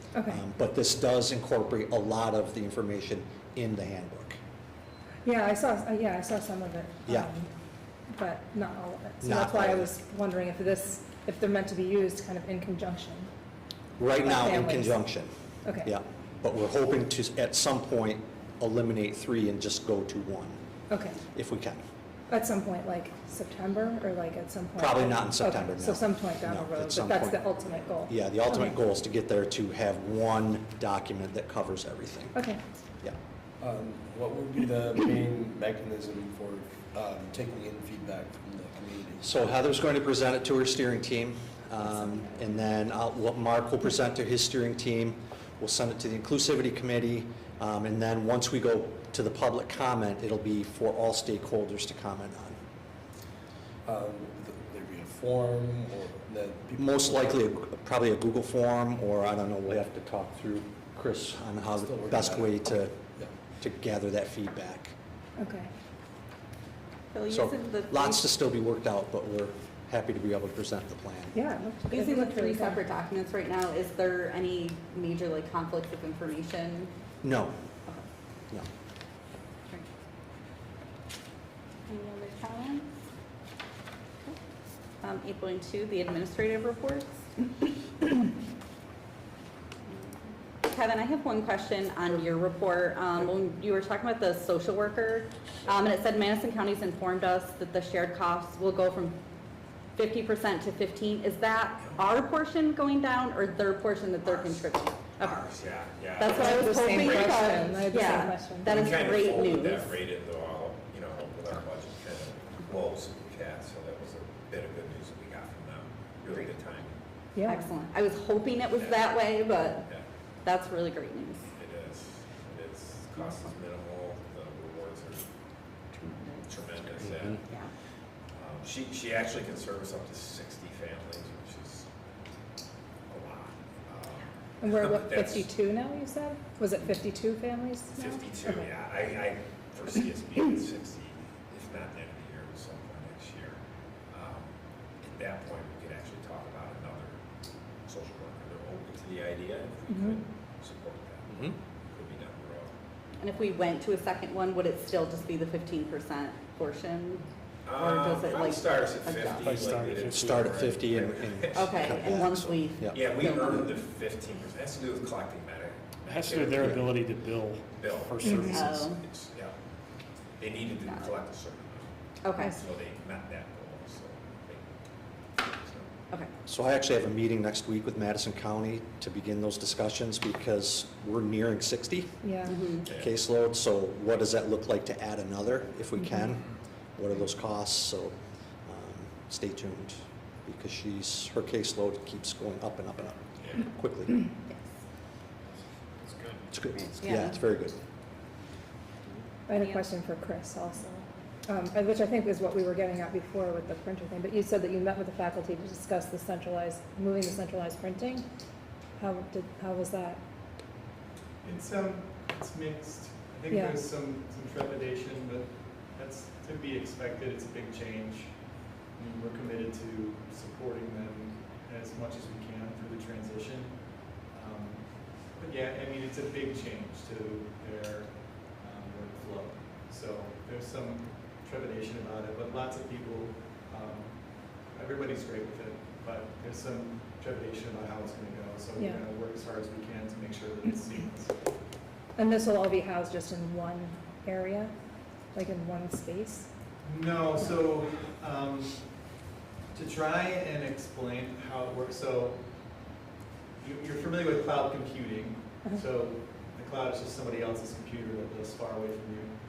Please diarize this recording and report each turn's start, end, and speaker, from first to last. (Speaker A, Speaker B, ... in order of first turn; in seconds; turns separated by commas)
Speaker A: 0.1-0.4, Speaker B: 0.2-4.4, Speaker A: 5.2-7.5, Speaker B: 7.0-7.3, Speaker A: 8.1-13.3, Speaker B: 9.2-9.9, Speaker B: 14.0-15.3, Speaker A: 14.2-15.0, Speaker A: 15.6-15.9, Speaker B: 15.8-20.6, Speaker A: 20.9-21.2, Speaker B: 21.3-21.8, Speaker A: 22.3-28.8, Speaker B: 24.8-32.5, Speaker A: 32.3-32.6, Speaker C: 33.6-39.3, Speaker B: 39.2-52.6, Speaker A: 42.0-42.3, Speaker C: 53.9-57.3, Speaker B: 56.8-63.0, Speaker C: 61.8-62.6, Speaker B: 63.6-64.9, Speaker A: 65.4-65.7, Speaker D: 67.1-68.2, Speaker B: 67.3-71.3, Speaker A: 71.3-72.8, Speaker D: 71.9-76.9, Speaker B: 77.2-77.5, Speaker D: 81.9-82.8, Speaker D: 85.0-88.1, Speaker D: 89.9-99.2, Speaker D: 100.0-105.5, Speaker E: 101.8-102.2, Speaker E: 104.2-116.9, Speaker D: 106.2-110.0, Speaker A: 106.3-108.7, Speaker D: 116.3-116.5, Speaker A: 117.3-117.7, Speaker D: 117.5-119.9, Speaker E: 118.8-120.0, Speaker D: 120.4-121.4, Speaker E: 121.5-125.3, Speaker D: 123.1-123.5, Speaker D: 125.9-126.9, Speaker E: 126.5-127.4, Speaker E: 128.3-131.9, Speaker E: 133.1-135.5, Speaker A: 134.6-138.7, Speaker E: 138.0-143.6, Speaker D: 138.0-138.2, Speaker E: 144.1-144.5, Speaker E: 145.1-147.2, Speaker E: 147.8-151.3, Speaker A: 149.9-150.2, Speaker B: 151.3-151.6, Speaker E: 151.9-152.7, Speaker D: 153.2-159.4, Speaker E: 157.6-162.1, Speaker F: 159.4-160.4, Speaker B: 160.1-163.0, Speaker D: 161.5-163.7, Speaker E: 162.9-166.9, Speaker F: 166.1-168.8, Speaker E: 167.7-169.5, Speaker A: 168.2-168.6, Speaker D: 168.5-169.0, Speaker E: 170.4-171.9, Speaker D: 170.8-171.1, Speaker D: 172.2-172.6, Speaker E: 172.5-174.8, Speaker E: 175.4-175.9, Speaker B: 176.5-182.2, Speaker A: 182.2-182.6, Speaker D: 182.4-182.8, Speaker E: 182.8-183.1, Speaker B: 182.8-188.2, Speaker A: 186.0-186.3, Speaker B: 188.7-194.2, Speaker B: 196.5-197.7, Speaker D: 196.7-197.4, Speaker A: 199.5-208.2, Speaker D: 199.5-199.8, Speaker A: 209.0-210.2, Speaker G: 211.4-218.3, Speaker G: 218.9-234.1, Speaker G: 234.7-241.4, Speaker A: 238.8-239.0, Speaker A: 242.2-244.7, Speaker A: 245.3-246.5, Speaker G: 246.8-248.8, Speaker G: 249.7-252.4, Speaker G: 253.6-259.3